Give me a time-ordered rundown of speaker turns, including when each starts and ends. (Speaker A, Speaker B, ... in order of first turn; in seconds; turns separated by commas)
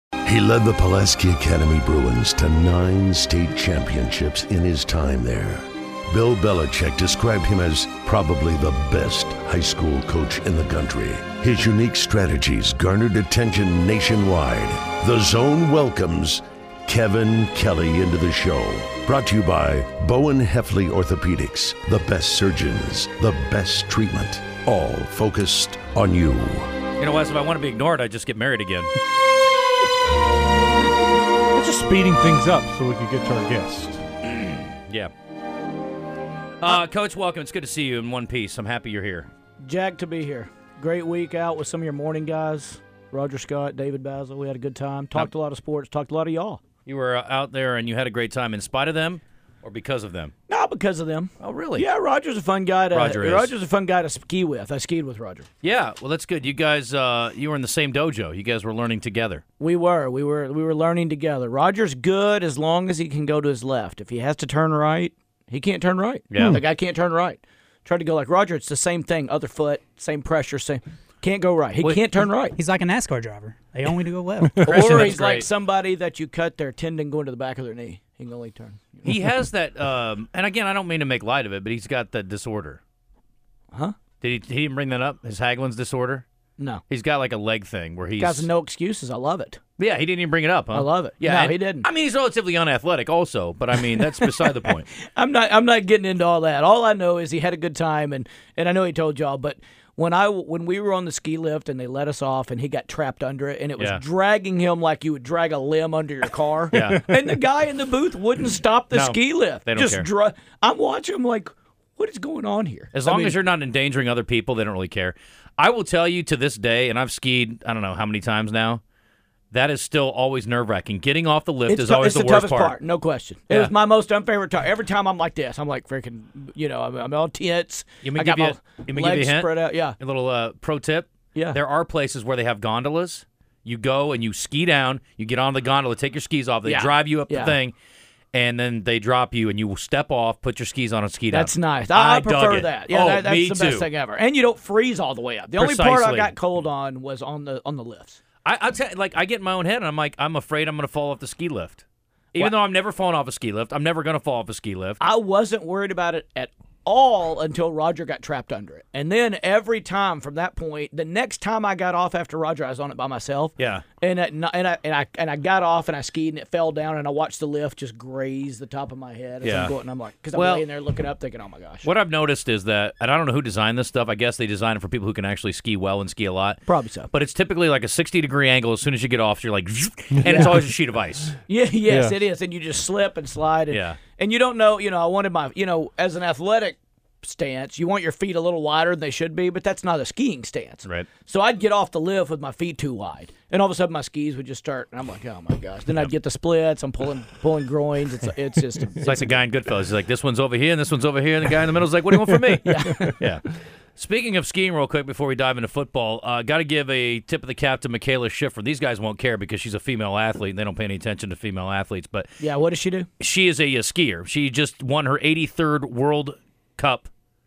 Speaker A: 0.2-26.7, Speaker B: 27.0-28.9, Speaker C: 31.5-34.0, Speaker B: 34.3-35.1, Speaker B: 36.6-39.3, Speaker D: 39.6-46.6, Speaker B: 46.9-50.3, Speaker D: 50.5-55.5, Speaker B: 51.4-51.9, Speaker B: 52.9-53.5, Speaker B: 55.6-59.4, Speaker D: 59.6-72.5, Speaker B: 66.3-66.6, Speaker E: 72.4-75.1, Speaker C: 74.5-74.8, Speaker D: 74.6-79.2, Speaker B: 74.7-75.5, Speaker B: 79.0-82.8, Speaker B: 84.2-86.2, Speaker B: 86.9-88.5, Speaker D: 88.2-89.6, Speaker B: 89.8-94.9, Speaker D: 90.7-91.9, Speaker D: 93.8-94.4, Speaker D: 95.0-113.4, Speaker B: 106.7-107.0, Speaker B: 108.9-110.1, Speaker B: 112.9-118.8, Speaker B: 119.5-122.8, Speaker D: 121.7-129.9, Speaker B: 128.0-137.7, Speaker D: 136.6-137.6, Speaker B: 138.3-143.9, Speaker D: 141.3-148.2, Speaker B: 145.6-146.3, Speaker B: 148.4-155.0, Speaker D: 155.0-171.9, Speaker B: 163.6-163.8, Speaker B: 169.4-169.7, Speaker B: 170.3-170.7, Speaker B: 171.8-181.3, Speaker D: 176.7-177.1, Speaker C: 180.2-180.4, Speaker D: 180.2-180.5, Speaker D: 181.4-199.4, Speaker C: 181.8-182.2, Speaker B: 183.7-184.0, Speaker B: 199.0-203.4, Speaker D: 202.6-203.3, Speaker B: 203.9-212.3, Speaker D: 212.4-213.1, Speaker B: 213.2-217.1